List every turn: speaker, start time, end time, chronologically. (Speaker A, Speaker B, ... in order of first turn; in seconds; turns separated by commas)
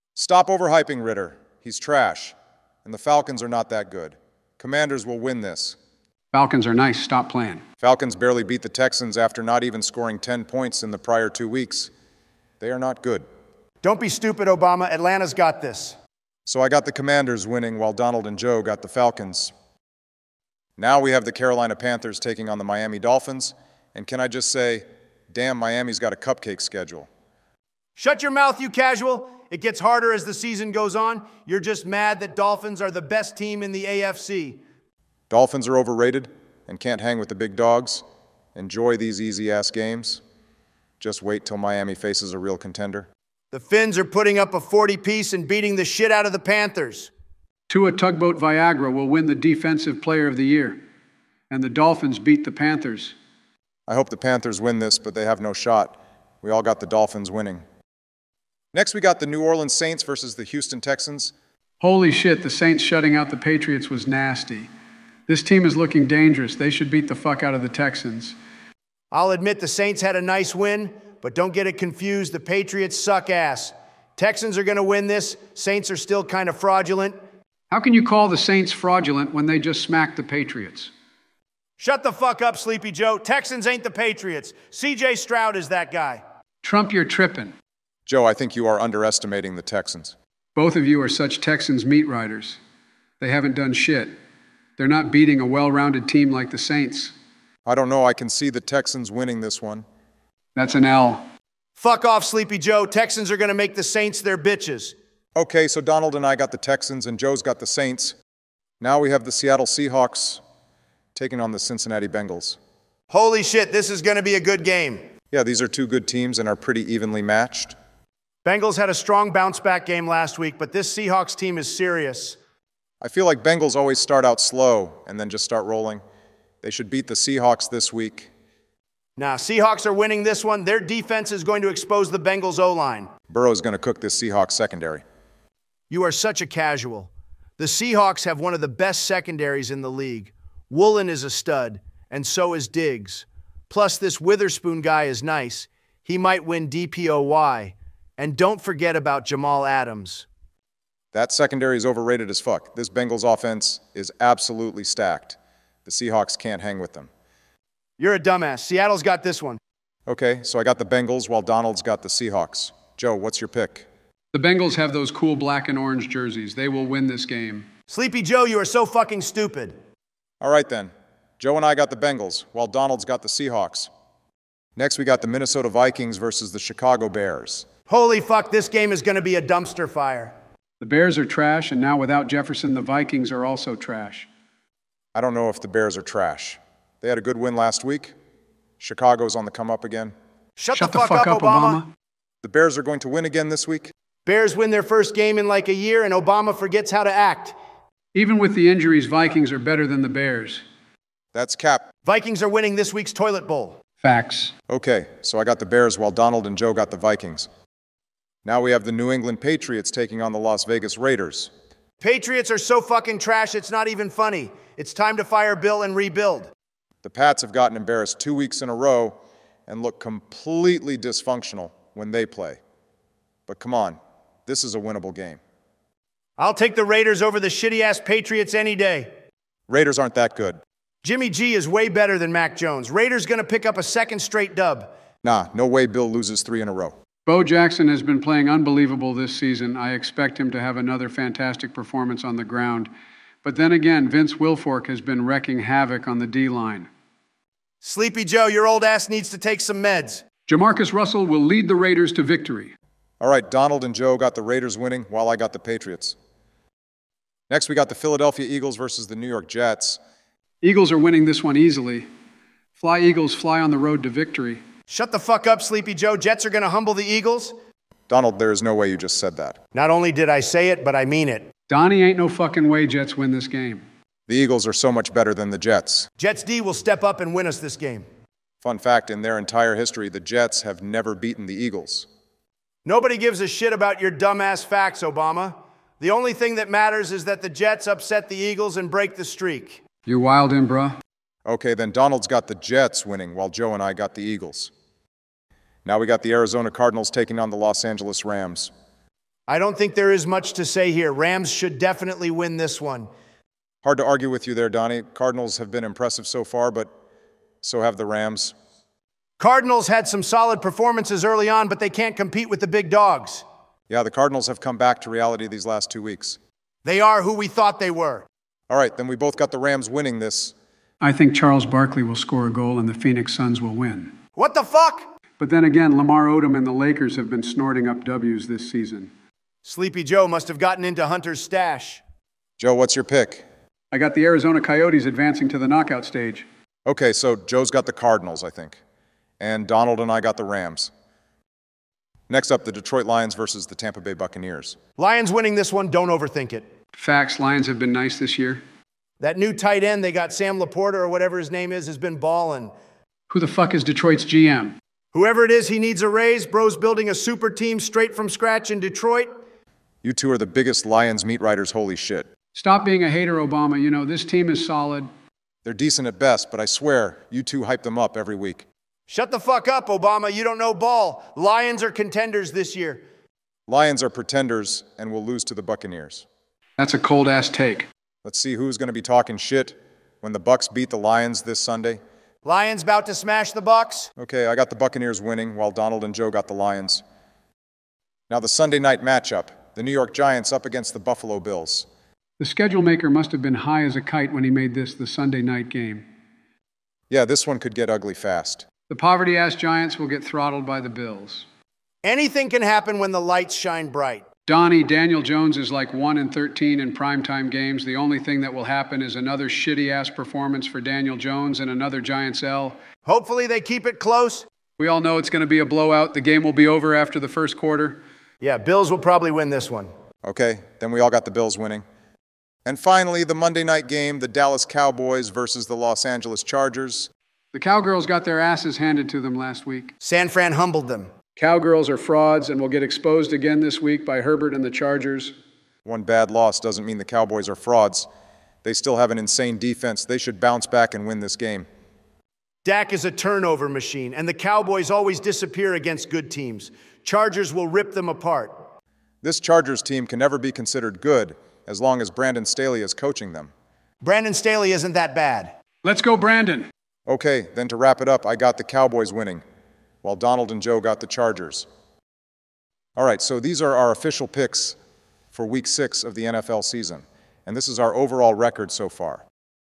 Speaker A: 0.1-5.8, Speaker B: 6.3-7.6, Speaker A: 7.8-11.9, Speaker A: 12.6-13.2, Speaker C: 13.8-16.0, Speaker A: 16.4-19.5, Speaker A: 20.8-27.1, Speaker C: 28.0-34.6, Speaker A: 35.3-38.0, Speaker A: 38.5-40.2, Speaker A: 41.0-43.1, Speaker C: 43.5-47.1, Speaker B: 47.7-50.8, Speaker B: 51.5-53.1, Speaker A: 53.9-57.6, Speaker A: 58.7-61.3, Speaker B: 61.8-64.7, Speaker B: 65.3-68.3, Speaker C: 69.1-77.2, Speaker B: 77.7-80.9, Speaker C: 81.8-86.2, Speaker B: 86.6-87.5, Speaker A: 88.0-90.1, Speaker B: 90.5-92.6, Speaker B: 93.2-94.1, Speaker B: 94.8-97.1, Speaker A: 97.7-99.8, Speaker B: 100.5-101.3, Speaker C: 101.8-104.9, Speaker A: 105.3-108.2, Speaker A: 108.8-110.4, Speaker A: 111.1-112.6, Speaker C: 113.1-115.0, Speaker A: 115.3-117.7, Speaker C: 118.4-122.4, Speaker A: 123.0-126.0, Speaker A: 126.6-128.3, Speaker C: 129.2-133.1, Speaker A: 133.3-135.0, Speaker C: 135.9-150.2, Speaker A: 151.1-157.1, Speaker C: 158.0-159.6, Speaker A: 160.1-163.9, Speaker B: 164.3-167.7, Speaker C: 167.9-169.7, Speaker A: 170.4-173.9, Speaker A: 174.8-177.7, Speaker C: 177.9-180.3, Speaker B: 180.8-184.3, Speaker A: 185.1-188.1, Speaker A: 188.8-190.1, Speaker C: 190.6-191.8, Speaker B: 190.7-191.9, Speaker A: 192.4-193.9, Speaker C: 194.2-197.6, Speaker B: 198.1-200.6, Speaker A: 201.3-201.8, Speaker C: 202.1-203.8, Speaker B: 204.0-204.5, Speaker A: 204.7-207.5, Speaker A: 208.4-211.5, Speaker C: 212.0-216.5, Speaker A: 217.0-222.6, Speaker A: 223.5-225.4, Speaker C: 226.4-229.1, Speaker A: 229.7-230.6, Speaker C: 231.0-234.9, Speaker A: 235.2-236.9, Speaker B: 237.2-242.9, Speaker B: 243.4-246.9, Speaker C: 247.8-250.2, Speaker B: 250.5-252.7, Speaker A: 253.2-256.2, Speaker A: 257.5-260.0, Speaker B: 260.6-262.1, Speaker B: 262.8-264.6, Speaker C: 264.9-267.6, Speaker A: 268.1-269.6, Speaker C: 269.7-271.5, Speaker B: 271.7-273.8, Speaker A: 274.3-276.1, Speaker C: 276.2-278.0, Speaker A: 278.6-282.1, Speaker C: 282.8-289.8, Speaker B: 290.1-291.0, Speaker A: 291.4-294.7, Speaker A: 295.8-298.7, Speaker C: 299.5-303.1, Speaker A: 303.8-306.9, Speaker A: 307.6-308.5, Speaker C: 309.4-313.4, Speaker A: 313.9-316.4, Speaker C: 316.8-318.3, Speaker A: 318.7-320.5, Speaker B: 321.0-324.1, Speaker C: 324.4-325.1, Speaker B: 325.4-329.1, Speaker C: 329.6-332.0, Speaker A: 332.6-333.4, Speaker B: 333.9-336.4, Speaker A: 336.9-338.8, Speaker A: 339.4-340.9, Speaker A: 342.3-344.8, Speaker C: 345.0-346.7, Speaker B: 346.9-348.6, Speaker C: 349.2-352.7, Speaker B: 353.3-354.8, Speaker C: 355.1-359.3, Speaker A: 360.0-362.3, Speaker B: 362.5-365.1, Speaker A: 365.6-368.6, Speaker C: 369.1-373.0, Speaker A: 373.7-376.2, Speaker B: 376.8-377.9, Speaker A: 378.2-382.0, Speaker C: 382.4-384.1, Speaker A: 384.2-387.0, Speaker A: 388.3-391.9, Speaker B: 392.4-396.0, Speaker A: 397.1-398.6, Speaker B: 398.9-401.4, Speaker C: 402.0-404.2, Speaker B: 404.5-412.8, Speaker C: 413.1-414.5, Speaker B: 414.8-418.0, Speaker C: 418.4-419.9, Speaker A: 420.2-421.8, Speaker A: 422.6-427.1, Speaker B: 427.5-429.9, Speaker C: 430.0-431.1, Speaker B: 431.4-435.3, Speaker A: 435.8-438.1, Speaker A: 438.6-441.7, Speaker C: 442.6-448.7, Speaker A: 449.2-453.5, Speaker C: 454.0-455.5, Speaker B: 455.8-456.7, Speaker A: 457.1-459.4, Speaker A: 460.0-461.6, Speaker A: 462.9-464.8, Speaker A: 465.3-469.2